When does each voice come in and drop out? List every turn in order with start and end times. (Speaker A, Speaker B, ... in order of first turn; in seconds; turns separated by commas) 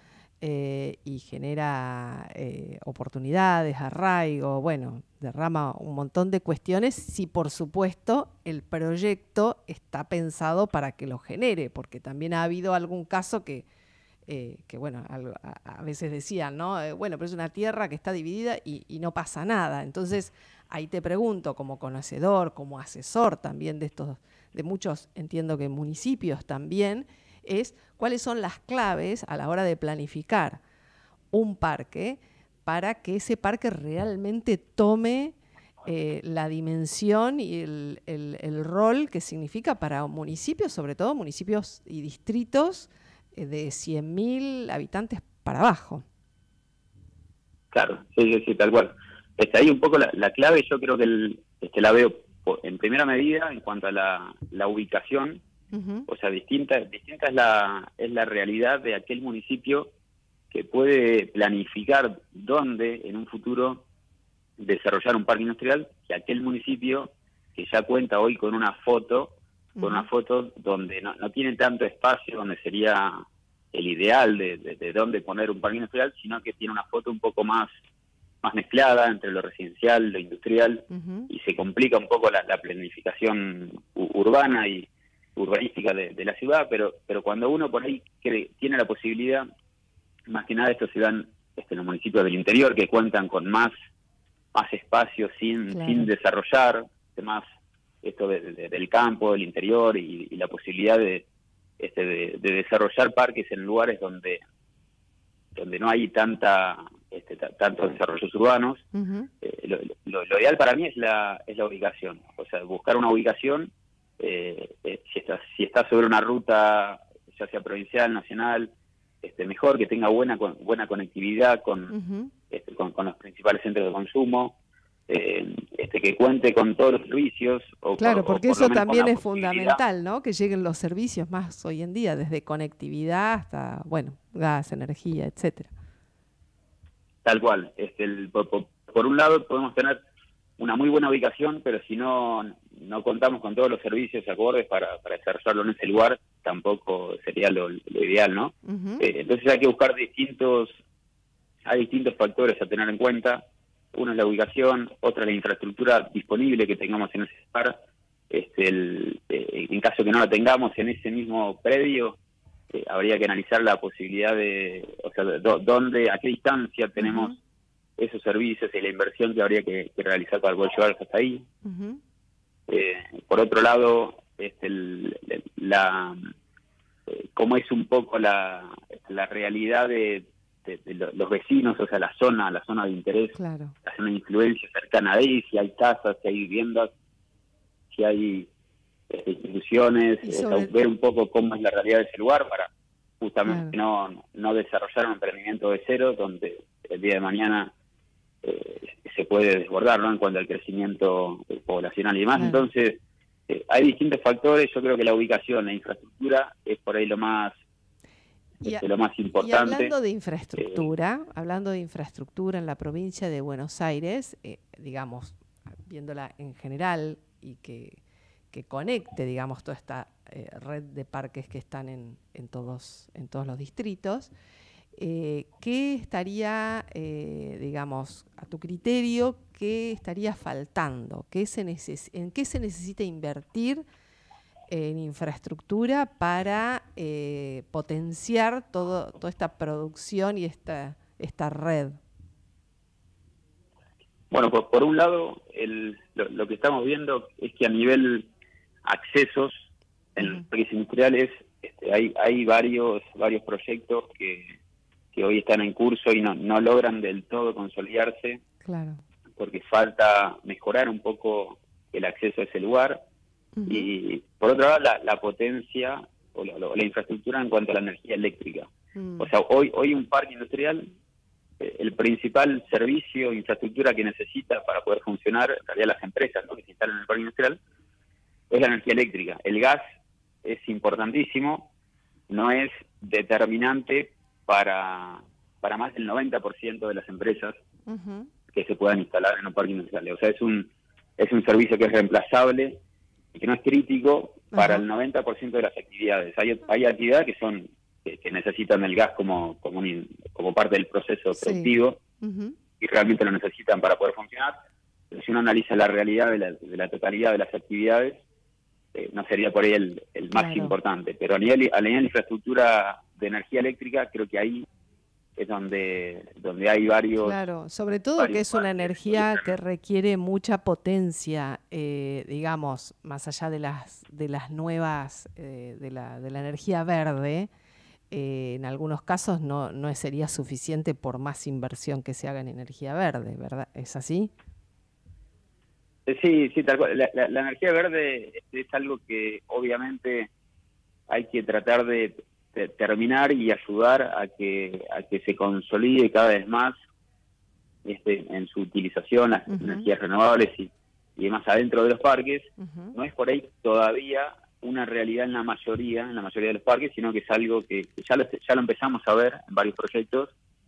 Speaker A: 0.4-13.7, Speaker A: 14.3-30.6, Speaker A: 31.3-46.0, Speaker B: 47.7-55.4, Speaker A: 55.7-56.1, Speaker B: 56.1-59.9, Speaker B: 60.5-63.9, Speaker B: 64.6-77.7, Speaker A: 69.8-70.1, Speaker B: 78.4-89.5, Speaker A: 80.9-81.3, Speaker B: 90.3-93.7, Speaker B: 94.5-97.4, Speaker A: 95.7-96.1, Speaker B: 98.0-101.2, Speaker B: 101.8-104.4, Speaker B: 105.5-108.8, Speaker A: 108.9-109.3, Speaker B: 109.4-118.7, Speaker B: 119.2-121.9, Speaker A: 121.9-122.3, Speaker B: 122.5-124.6, Speaker B: 125.1-129.8, Speaker A: 128.0-135.7, Speaker B: 137.2-140.0, Speaker B: 140.6-150.8, Speaker A: 148.7-149.1, Speaker B: 151.7-157.8, Speaker B: 158.3-162.2, Speaker B: 162.7-167.3, Speaker A: 167.0-167.4, Speaker B: 168.0-171.5, Speaker A: 171.6-172.0, Speaker B: 172.7-176.3, Speaker B: 177.1-186.9, Speaker A: 183.3-183.8, Speaker B: 187.9-188.5, Speaker B: 189.1-192.7, Speaker A: 190.2-190.7, Speaker B: 193.2-197.7, Speaker A: 193.5-193.7, Speaker B: 198.4-207.6, Speaker A: 202.4-202.7, Speaker B: 208.7-209.9, Speaker A: 209.4-218.0, Speaker B: 210.6-210.9, Speaker A: 218.5-224.3, Speaker A: 225.0-233.8, Speaker A: 234.7-242.0, Speaker B: 244.3-248.3, Speaker B: 248.8-254.6, Speaker B: 255.1-258.4, Speaker A: 258.6-259.0, Speaker B: 259.4-263.1, Speaker A: 263.6-263.9, Speaker B: 263.7-270.9, Speaker A: 268.9-269.3, Speaker B: 271.6-277.6, Speaker B: 278.5-279.8, Speaker B: 280.4-281.7, Speaker B: 282.3-287.6, Speaker A: 287.9-288.3, Speaker B: 288.5-292.8, Speaker B: 293.3-302.0, Speaker A: 294.5-294.9, Speaker A: 301.4-302.6, Speaker B: 302.8-304.5, Speaker B: 305.1-308.2, Speaker B: 308.9-314.7, Speaker A: 310.3-310.8, Speaker B: 315.4-317.4, Speaker A: 317.2-327.5, Speaker B: 318.2-319.5, Speaker A: 328.1-334.3, Speaker B: 336.1-340.3, Speaker B: 341.1-346.8, Speaker B: 347.9-360.3, Speaker A: 349.5-349.9, Speaker A: 352.6-352.9